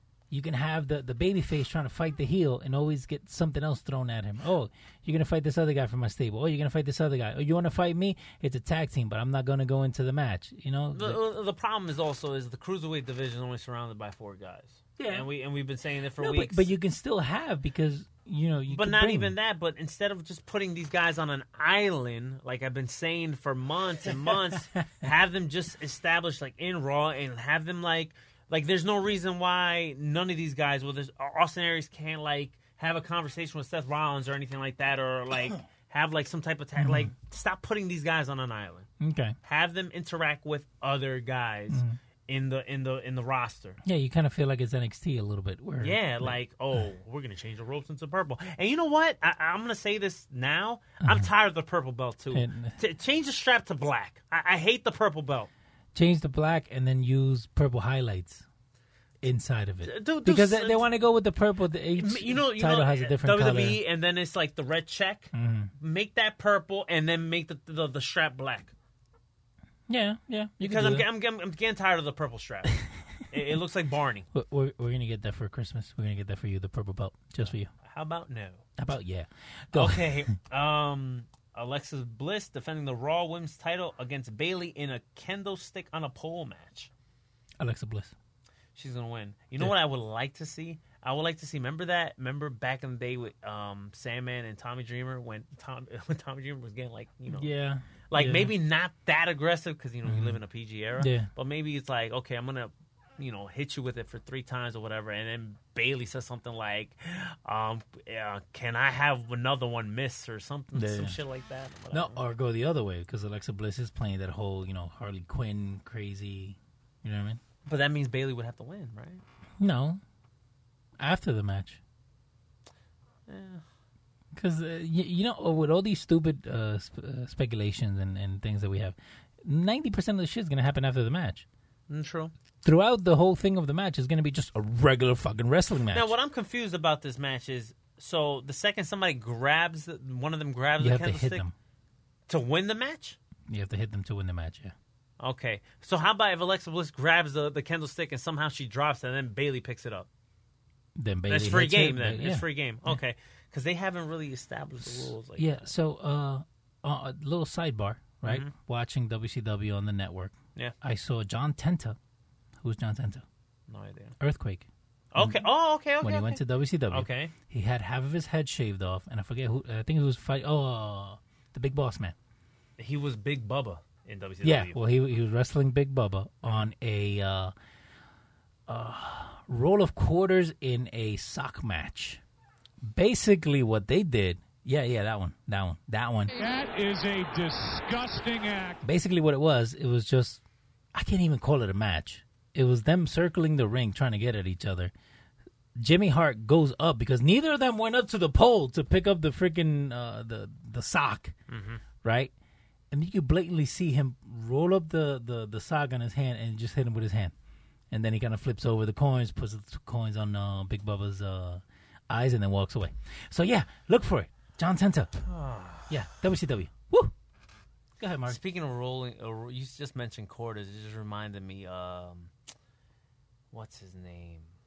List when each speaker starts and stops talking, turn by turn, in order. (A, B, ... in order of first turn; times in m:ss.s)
0:00.3-0:11.2 A
0:10.9-0:16.7 B
0:15.0-0:15.2 A
0:16.2-0:19.3 A
0:18.7-0:38.9 B
0:24.3-0:24.8 A
0:36.8-0:37.1 A
0:39.0-0:39.3 A
0:39.4-0:43.8 B
0:41.7-0:42.0 A
0:43.8-0:46.4 A
0:45.8-0:55.5 B
0:52.3-0:52.8 A
0:55.9-0:58.4 A
0:59.2-1:03.8 A
0:59.8-1:00.9 B
1:02.0-1:08.7 B
1:05.3-1:05.7 A
1:09.9-1:11.0 A
1:10.6-1:14.3 B
1:14.3-1:17.7 A
1:17.4-1:18.6 B
1:18.8-1:20.2 A
1:19.7-1:26.9 B
1:27.6-1:28.1 A
1:28.7-1:37.5 B
1:37.3-1:38.5 A
1:38.1-1:52.2 B
1:40.0-1:40.4 A
1:41.0-1:41.3 A
1:50.7-1:51.2 A
1:51.9-1:57.4 A
1:57.6-1:59.2 B
1:59.6-2:00.0 A
2:01.0-2:01.8 A
2:03.3-2:03.6 B
2:04.3-2:11.4 A
2:11.9-2:12.3 B
2:12.6-2:16.1 A
2:15.9-2:21.4 B
2:20.8-2:21.5 A
2:22.3-2:23.2 B
2:23.5-2:24.7 A
2:25.2-2:30.1 B
2:31.0-2:33.0 A
2:31.3-2:35.7 B
2:34.8-2:42.0 A
2:38.2-2:38.5 B
2:42.6-2:43.2 A
2:43.7-2:44.2 B
2:44.2-2:44.6 A
2:45.1-2:47.3 B
2:46.0-2:52.1 A
2:52.8-2:54.8 B
2:54.4-2:57.5 A
2:58.7-3:02.2 A
3:02.8-3:06.3 A
3:06.3-3:08.8 C
3:08.8-3:10.4 A
3:10.9-3:14.9 A
3:15.8-3:21.3 A
3:21.5-3:21.8 B
3:22.0-3:22.3 A
3:22.9-3:27.3 A
3:27.9-3:35.2 A
3:35.2-3:35.9 B
3:35.9-3:37.1 A
3:38.0-3:38.4 A
3:38.2-3:42.3 B
3:43.5-3:44.5 B